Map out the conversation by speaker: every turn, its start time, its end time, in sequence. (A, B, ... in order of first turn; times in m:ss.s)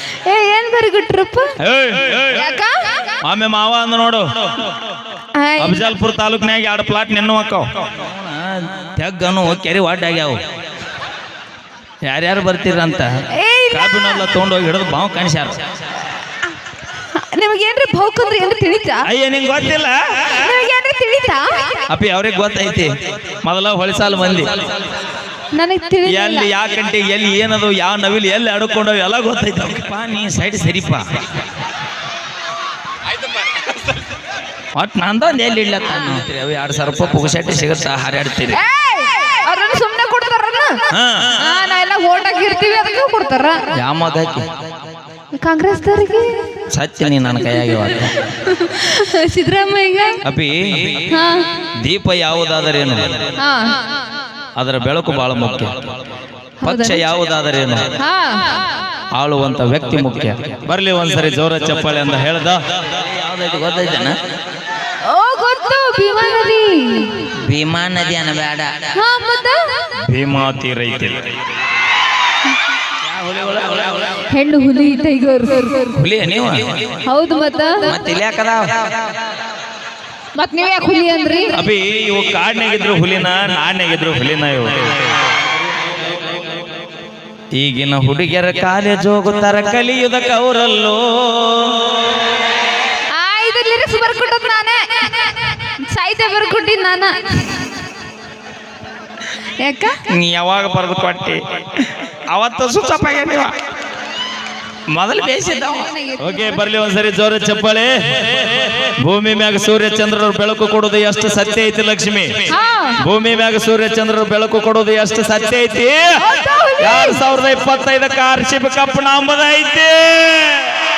0:00.2-0:01.5 A
0:01.6-0:02.4 B
0:02.3-0:03.1 A
0:03.2-0:04.2 B
0:05.4-0:05.9 A
0:05.6-0:10.4 B
0:12.0-0:13.2 B
0:13.3-0:14.2 A
0:13.7-0:15.6 B
0:17.1-0:19.0 A
0:19.0-0:20.3 B
0:20.3-0:21.8 A
0:21.9-0:22.9 B
0:23.4-0:24.5 B
0:25.5-0:26.5 A
0:26.1-0:31.0 B
0:34.8-0:38.6 B
0:38.5-0:40.8 A
0:40.9-0:41.3 B
0:41.4-0:43.6 A
0:43.8-0:44.5 B
0:45.4-0:46.6 A
0:46.7-0:48.2 B
0:48.4-0:50.2 A
0:50.2-0:51.1 B
0:51.1-0:51.4 A
0:51.8-0:53.2 B
0:53.4-0:53.8 A
0:54.6-0:55.9 B
0:56.6-0:57.9 B
0:56.6-0:57.0 A
0:58.0-0:58.8 A
0:59.2-1:04.2 B
1:05.0-1:07.3 A
1:07.4-1:08.9 B
1:09.0-1:09.9 A
1:10.0-1:11.4 B
1:13.0-1:14.1 B
1:14.3-1:16.0 A
1:15.9-1:17.0 B
1:17.0-1:17.9 A
1:17.8-1:18.8 B
1:20.4-1:21.5 A
1:21.5-1:24.9 B
1:27.6-1:31.9 B
1:33.1-1:37.4 A
1:39.6-1:40.0 A
1:40.1-1:43.5 B
1:44.9-1:52.5 B
1:45.9-1:46.6 A
1:52.5-1:53.0 A
1:53.0-1:56.2 B
1:56.2-1:57.2 A
1:56.8-2:00.8 B